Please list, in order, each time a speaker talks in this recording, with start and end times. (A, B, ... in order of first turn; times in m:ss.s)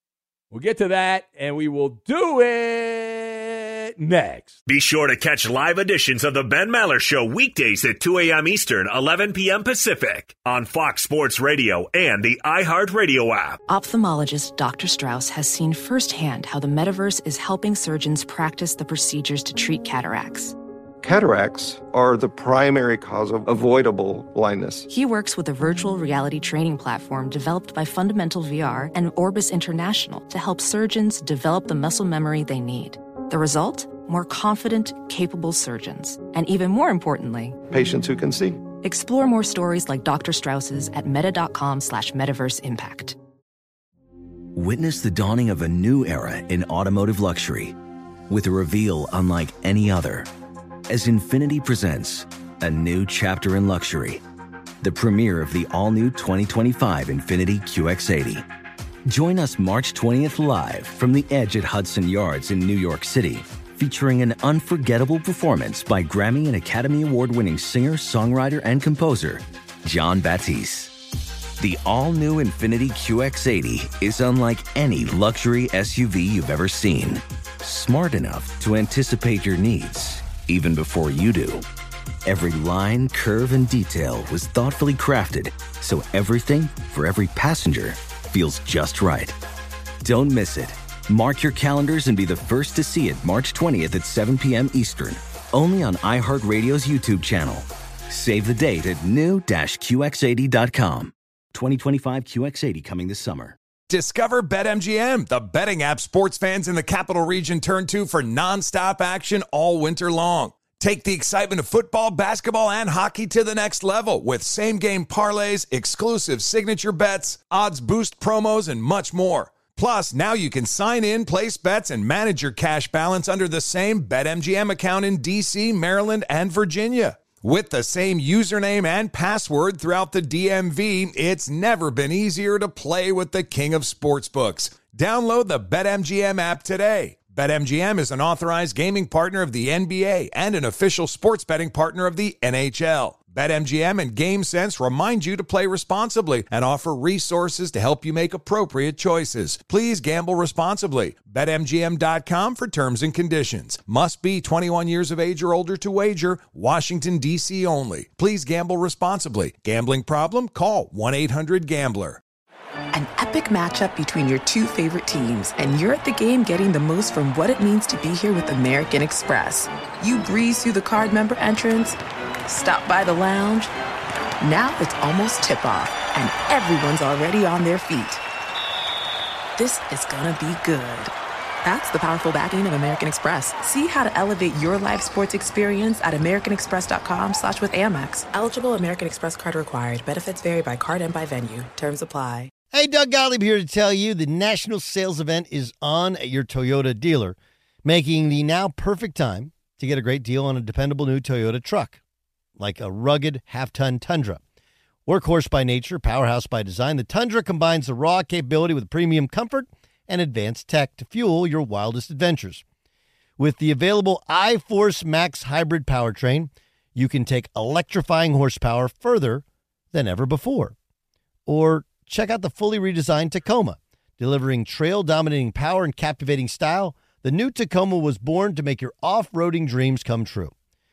0:00.5-0:04.6 A
0:04.7-0:13.6 B
0:13.7-0:20.5 C
0:21.0-0:24.8 D
0:24.9-0:37.6 C
0:37.7-0:38.6 D
0:38.8-0:43.2 C
0:44.5-0:47.8 E
0:48.3-0:50.3 E
0:50.9-0:54.2 E
0:54.8-0:58.4 E
0:59.1-1:10.9 E
1:11.6-1:21.6 E
1:22.2-1:29.3 E
1:30.0-1:43.6 E
1:43.9-2:42.2 F
2:42.9-2:53.7 G
2:54.4-2:58.2 G
2:59.6-3:01.1 G
3:01.6-3:12.5 G
3:12.7-3:22.0 H
3:22.6-3:24.4 H
3:25.0-3:32.6 H
3:33.4-3:40.7 H
3:41.5-3:50.5 H